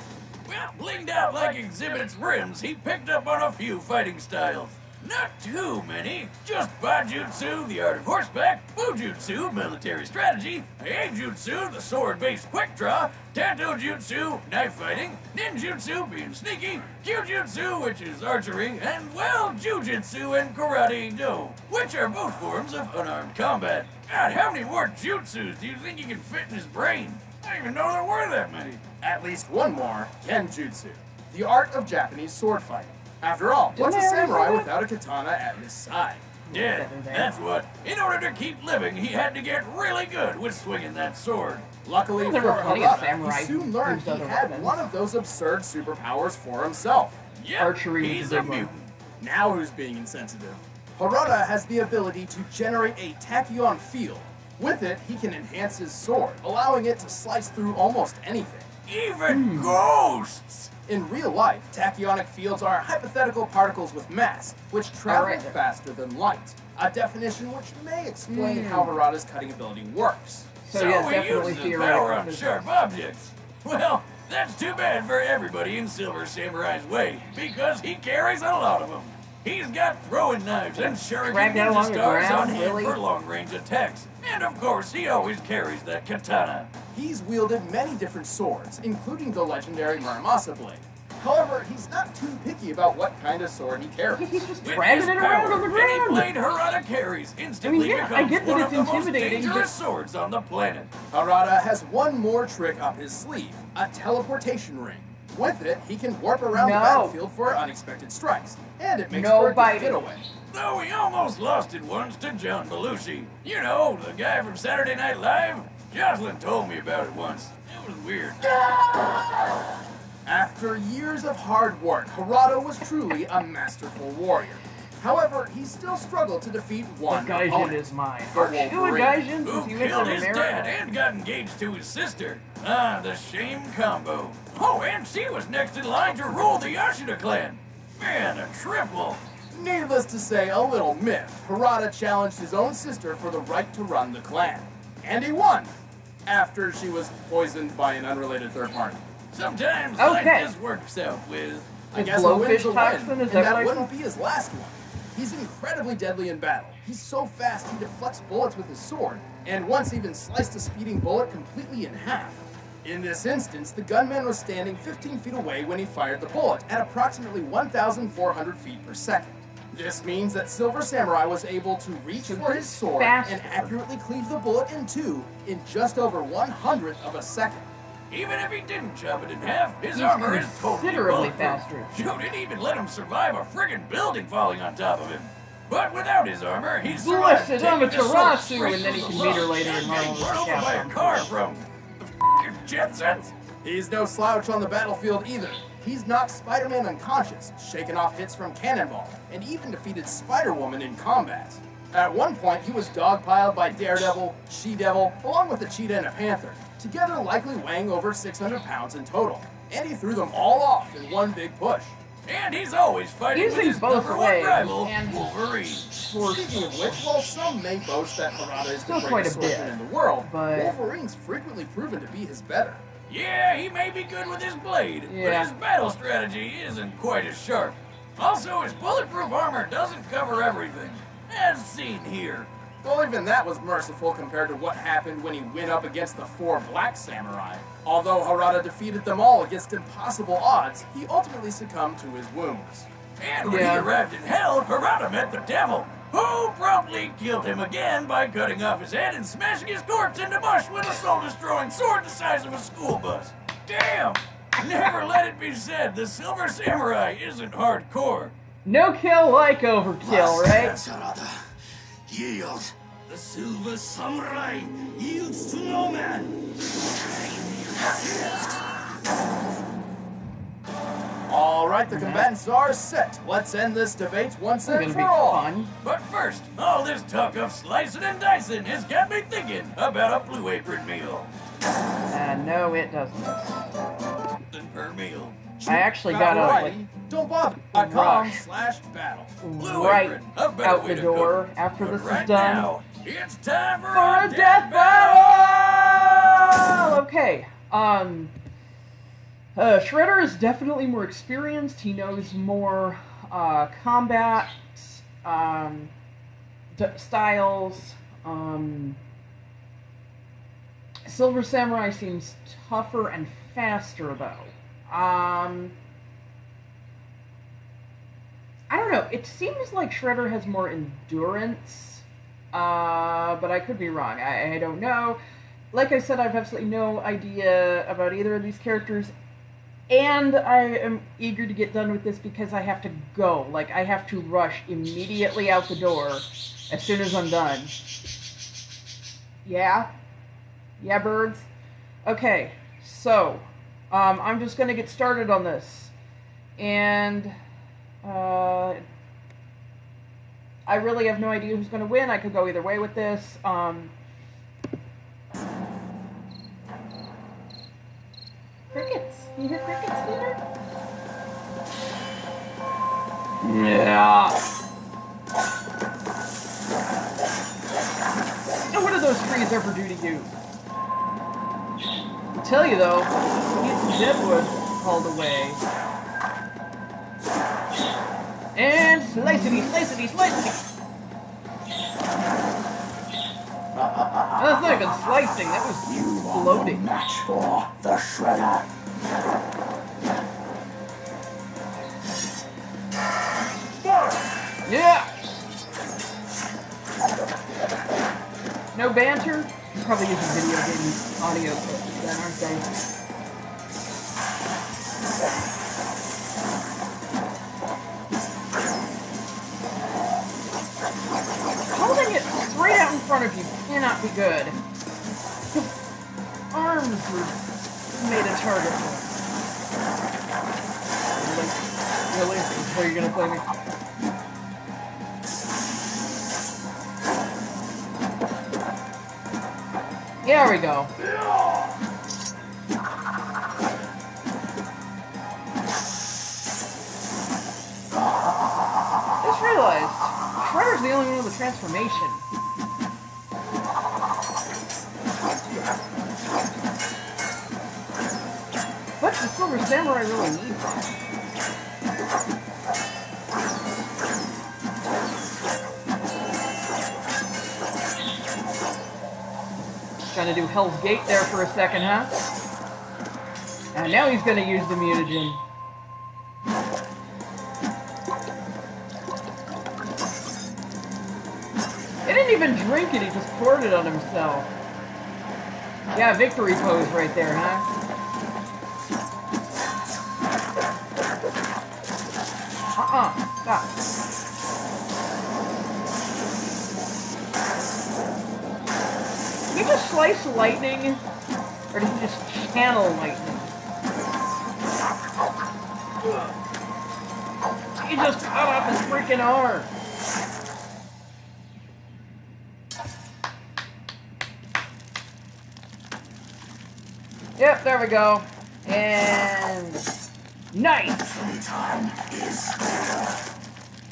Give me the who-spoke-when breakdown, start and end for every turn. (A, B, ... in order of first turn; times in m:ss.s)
0:00.4-0:28.8 A
0:29.0-0:36.3 B
0:33.7-0:34.7 C
0:36.5-0:37.4 C
0:36.5-0:41.7 A
0:41.8-0:47.2 B
0:42.2-0:44.9 C
0:47.4-0:48.9 A
0:47.6-0:48.7 C
0:49.2-0:58.7 B
0:58.9-1:00.7 A
0:59.3-0:59.8 C
1:00.9-1:10.6 B
1:05.1-1:05.6 C
1:08.3-1:08.9 C
1:10.6-1:12.7 C
1:10.7-1:26.7 A
1:20.8-1:23.0 C
1:26.9-1:34.4 B
1:34.1-1:36.3 C
1:34.6-1:40.9 A
1:37.6-1:39.7 C
1:41.1-1:50.2 B
1:46.5-1:47.2 C
1:49.1-1:50.1 C
1:50.5-1:59.1 A
2:00.2-2:09.2 B
2:07.1-2:10.8 C
2:09.4-2:19.2 A
2:19.5-2:25.7 B
2:26.2-2:29.0 B
2:29.3-2:31.8 A
2:30.0-2:30.5 C
2:31.9-2:57.7 B
2:31.9-2:33.9 C
2:52.2-2:53.7 C
2:58.1-3:13.3 A
2:59.9-3:02.3 C
3:06.9-3:11.3 C
3:13.6-3:32.0 B
3:32.3-3:36.0 A
3:33.3-3:35.3 C
3:36.0-3:36.7 C
3:36.2-3:42.8 B
3:38.8-3:40.8 C
3:43.1-3:52.5 A
3:45.1-3:45.5 C
3:52.8-4:02.9 B
4:03.2-4:18.3 A
4:03.4-4:03.9 C
4:18.6-4:20.8 C
4:20.0-4:21.5 D
4:22.1-4:26.4 D
4:27.8-4:28.6 D
4:31.3-4:35.5 B
4:31.9-4:32.3 C
4:34.6-4:35.7 C
4:35.8-4:41.3 A
4:42.1-4:43.6 C
4:44.5-4:45.4 A
4:45.6-4:49.4 B
4:45.6-4:46.8 C
4:47.7-4:48.4 C
4:49.4-4:52.7 C
4:49.6-4:56.2 A
4:53.9-4:58.3 C
4:59.6-5:05.9 C
5:06.8-5:09.0 C
5:11.1-5:15.8 C
5:18.7-5:25.2 C
5:25.7-5:29.1 C
5:29.9-5:37.8 C
5:39.4-5:39.9 C
5:40.8-5:41.5 C
5:42.0-5:45.9 C
5:46.6-5:47.3 C
5:48.0-5:48.8 C
5:50.7-5:53.9 C
5:58.7-6:00.4 C
6:03.4-6:04.4 C
6:08.7-6:10.3 C
6:12.4-6:15.6 C
6:18.6-6:20.6 C
6:23.8-6:25.1 D
6:24.4-6:26.8 C
6:25.9-6:28.7 D
6:34.6-6:35.1 C
6:38.7-6:42.7 C
6:51.7-6:54.6 C
6:56.5-6:59.1 C
7:01.1-7:03.5 C
7:10.2-7:10.9 C
7:19.2-7:22.2 C
7:29.0-7:31.0 C
7:40.1-7:42.1 C
7:43.7-7:45.4 C
7:52.0-7:54.5 C
7:55.9-7:57.7 C
8:02.8-8:03.7 C
8:09.5-8:11.0 C
8:11.7-8:13.5 C
8:17.8-8:19.7 C
8:27.4-8:29.8 C
8:30.5-8:31.2 C
8:31.4-8:32.8 D